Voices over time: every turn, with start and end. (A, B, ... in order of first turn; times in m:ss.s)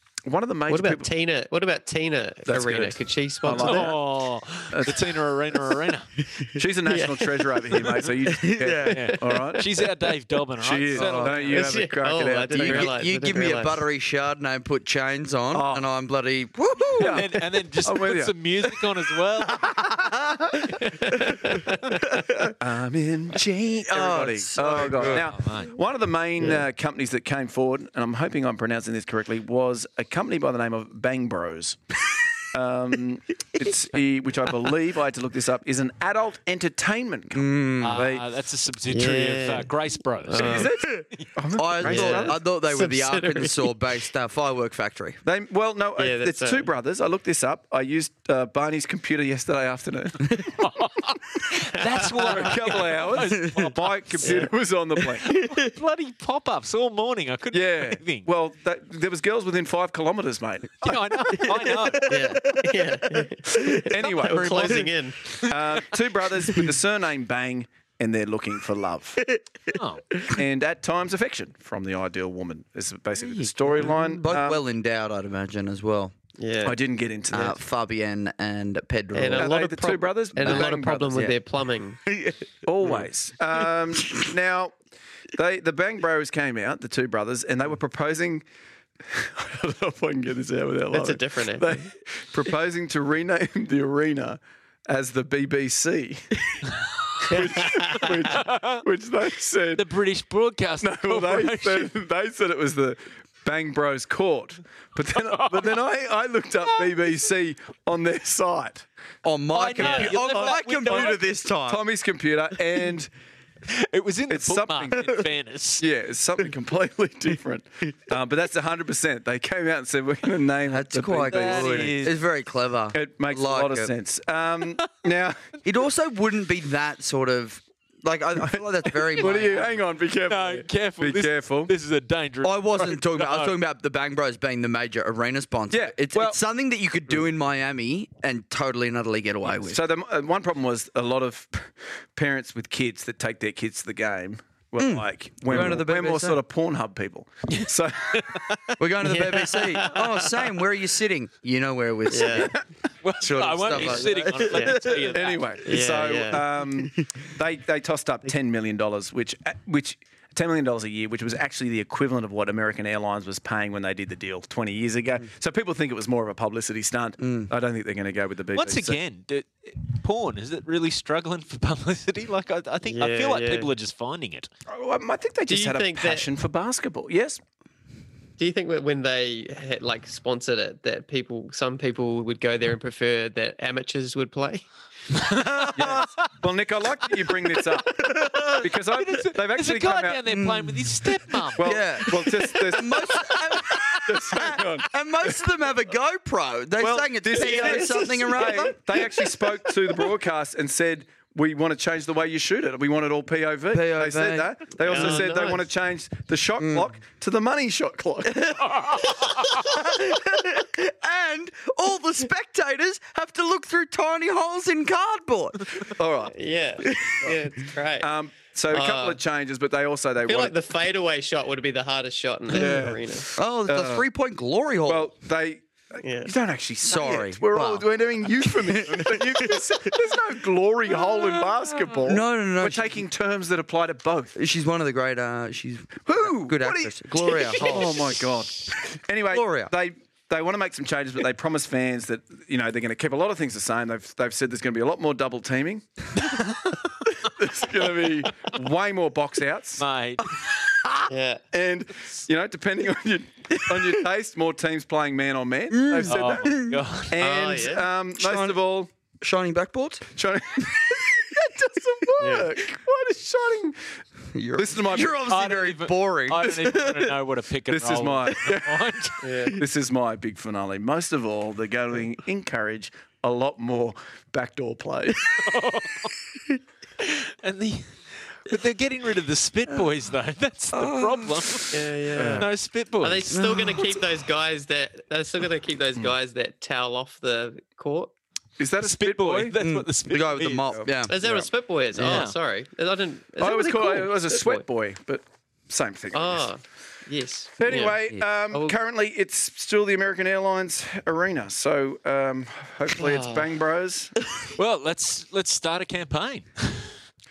0:00.3-0:01.1 A
0:00.7-0:04.0 B
0:02.5-0:04.0 A
0:03.6-0:06.1 C
0:04.7-0:05.7 A
0:06.6-0:09.7 A
0:06.8-0:08.1 B
0:08.3-0:09.2 D
0:08.9-0:09.2 B
0:08.9-0:11.7 C
0:10.6-0:12.9 A
0:11.0-0:11.4 D
0:11.5-0:13.8 B
0:12.6-0:17.4 D
0:15.5-0:15.9 A
0:17.0-0:18.4 A
0:17.0-0:19.8 C
0:19.5-0:20.7 A
0:19.9-0:20.4 D
0:20.8-0:21.8 B
0:22.1-0:22.5 D
0:22.6-0:31.8 A
0:23.9-0:25.3 D
0:25.0-0:25.7 C
0:32.5-0:38.3 A
0:37.3-0:38.1 D
0:37.8-0:41.3 C
0:38.9-0:39.7 B
0:40.2-0:40.7 B
0:40.4-0:42.4 A
0:41.6-0:45.2 D
0:41.8-0:43.7 B
0:45.2-0:50.6 A
0:46.0-0:46.7 B
0:50.5-0:54.2 C
0:52.2-0:55.5 A
0:53.3-0:53.7 D
0:54.2-0:54.5 B
0:55.3-0:58.3 C
0:57.5-1:01.5 A
1:00.8-1:02.4 C
1:01.9-1:02.9 D
1:02.1-1:05.4 B
1:03.8-1:04.9 A
1:04.0-1:05.9 C
1:05.4-1:09.2 A
1:09.7-1:10.2 C
1:10.3-1:14.6 A
1:13.2-1:16.1 D
1:16.4-1:16.8 B
1:16.6-1:17.6 A
1:17.3-1:19.6 D
1:19.1-1:22.0 B
1:19.3-1:21.3 A
1:20.4-1:21.3 D
1:22.1-1:22.3 D
1:22.6-1:24.8 A
1:25.3-1:28.4 A
1:29.0-1:36.6 A
1:30.9-1:31.9 B
1:37.2-1:39.9 A
1:37.2-1:38.3 B
1:38.3-1:38.8 C
1:39.8-1:41.9 C
1:40.8-1:48.9 A
1:45.2-1:45.8 C
1:49.2-1:51.8 D
1:49.5-1:51.3 C
1:49.8-1:53.1 A
1:53.7-1:55.8 C
1:54.3-1:55.2 A
1:55.8-2:02.2 A
2:00.7-2:03.9 D
2:01.2-2:02.2 C
2:02.9-2:05.5 A
2:05.6-2:09.7 D
2:09.1-2:11.7 A
2:09.2-2:09.6 C
2:10.2-2:13.6 C
2:12.4-2:19.8 D
2:15.7-2:16.4 A
2:19.5-2:28.4 A
2:24.8-2:26.4 D
2:27.5-2:28.8 C
2:28.8-2:32.6 D
2:29.0-2:30.4 B
2:32.1-2:32.5 B
2:33.0-2:35.6 C
2:33.2-2:35.2 D
2:33.8-2:35.0 B
2:35.1-2:49.0 A
2:35.6-2:36.6 B
2:47.2-2:47.5 D
2:48.5-2:54.5 C
2:52.8-2:53.7 B
2:54.7-2:57.4 A
2:55.5-2:56.3 B
2:58.4-3:04.7 B
3:05.4-3:05.6 C
3:05.6-3:10.2 A
3:08.2-3:08.6 D
3:08.9-3:12.5 C
3:10.3-3:10.9 D
3:11.6-3:15.5 A
3:11.6-3:19.3 D
3:16.8-3:29.1 A
3:23.7-3:25.2 D
3:24.8-3:25.6 B
3:26.6-3:26.9 D
3:28.3-3:36.0 D
3:36.0-3:36.4 A
3:36.3-3:38.1 B
3:36.9-3:37.2 D
3:38.0-3:40.6 A
3:38.7-3:39.2 B
3:40.3-3:43.3 B
3:42.5-3:43.0 A
3:43.3-3:45.1 D
3:43.7-3:44.1 A
3:44.9-3:54.4 A
3:46.0-3:46.3 B
3:46.8-3:50.0 D
3:51.1-3:52.9 D
3:54.4-3:58.3 D
3:56.1-4:06.1 A
3:59.3-3:59.7 D
4:06.2-4:06.8 C
4:07.2-4:09.8 A
4:08.2-4:08.6 C
4:09.8-4:10.9 C
4:11.1-4:11.4 B
4:11.5-4:16.6 A
4:15.7-4:16.8 D
4:16.1-4:17.2 C
4:17.1-4:18.9 A
4:17.2-4:17.9 B
4:18.2-4:18.6 D
4:19.2-4:20.0 D
4:20.1-4:23.8 A
4:22.2-4:22.5 B
4:24.3-4:27.1 D
4:24.6-4:25.2 A
4:25.3-4:29.5 C
4:27.7-4:35.6 A
4:29.2-4:29.6 B
4:35.4-4:36.2 C
4:37.0-4:43.4 C
4:40.7-4:41.7 D
4:41.7-4:42.5 B
4:42.2-4:42.5 A
4:43.0-4:48.1 B
4:43.3-4:43.9 D
4:48.6-4:49.6 A
4:48.8-4:50.9 C
4:49.6-4:51.1 D
4:50.7-4:51.5 A
4:51.1-4:54.6 B
4:52.0-4:52.2 D
4:52.0-4:52.4 C
4:53.4-4:56.5 A
4:56.1-4:58.0 B
4:57.6-5:04.2 A
4:58.5-4:58.8 B
5:03.0-5:03.5 B
5:04.5-5:06.9 C